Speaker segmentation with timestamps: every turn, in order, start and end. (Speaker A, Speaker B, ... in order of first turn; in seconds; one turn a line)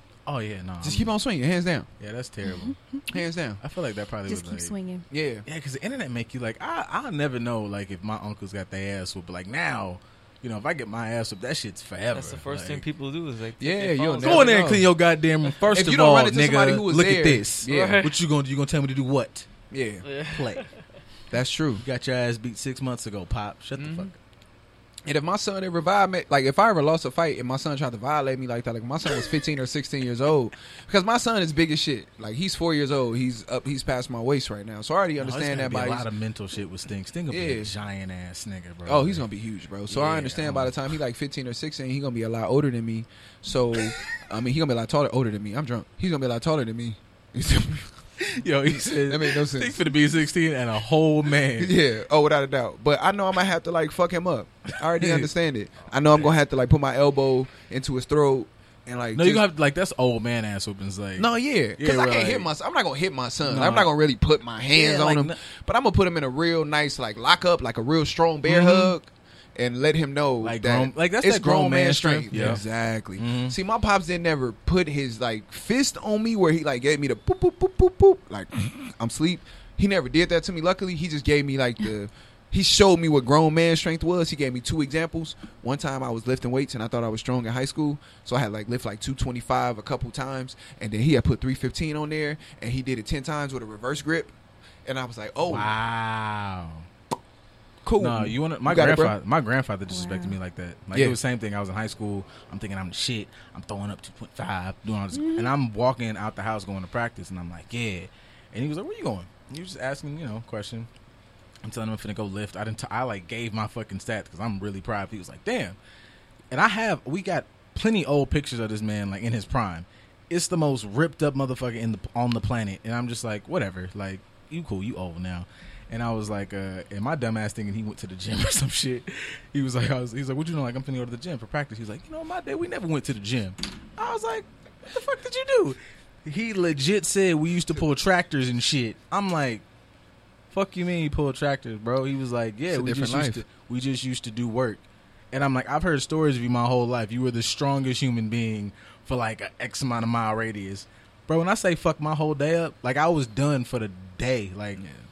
Speaker A: 0.3-1.1
Speaker B: 0.8-1.9
Speaker A: 2.0-2.8
Speaker C: 2.4-3.2
Speaker B: 3.1-3.6
Speaker A: 3.6-4.7
Speaker C: 4.3-5.1
Speaker B: 5.1-5.5
Speaker A: 5.5-12.8
Speaker D: 12.1-14.6
Speaker B: 13.6-14.9
Speaker A: 14.2-19.5
Speaker B: 15.7-18.1
Speaker D: 17.7-18.1
Speaker B: 19.7-20.1
Speaker D: 20.1-20.7
Speaker A: 20.3-20.7
Speaker B: 21.3-21.8
Speaker A: 21.8-24.2
Speaker B: 23.8-24.1
Speaker B: 25.1-36.1
Speaker A: 35.2-39.3
Speaker B: 37.3-37.7
Speaker B: 38.9-47.9
Speaker A: 39.9-40.9
Speaker A: 48.2-51.8
Speaker B: 48.7-49.9
Speaker B: 51.6-59.5
Speaker A: 55.0-55.3
Speaker A: 59.1-62.5
Speaker B: 61.2-94.3
Speaker A: 63.4-63.9
Speaker A: 64.7-65.4
Speaker A: 68.5-69.0
Speaker A: 70.4-72.6
Speaker A: 73.2-73.6
Speaker B: 94.8-95.7
Speaker A: 95.5-96.9
Speaker B: 97.8-99.2
Speaker A: 98.0-110.9
Speaker C: 99.9-100.4
Speaker B: 100.9-101.2
Speaker A: 111.6-115.8
Speaker A: 116.5-139.6
Speaker A: 140.5-154.8
Speaker B: 142.7-143.4
Speaker B: 154.8-155.0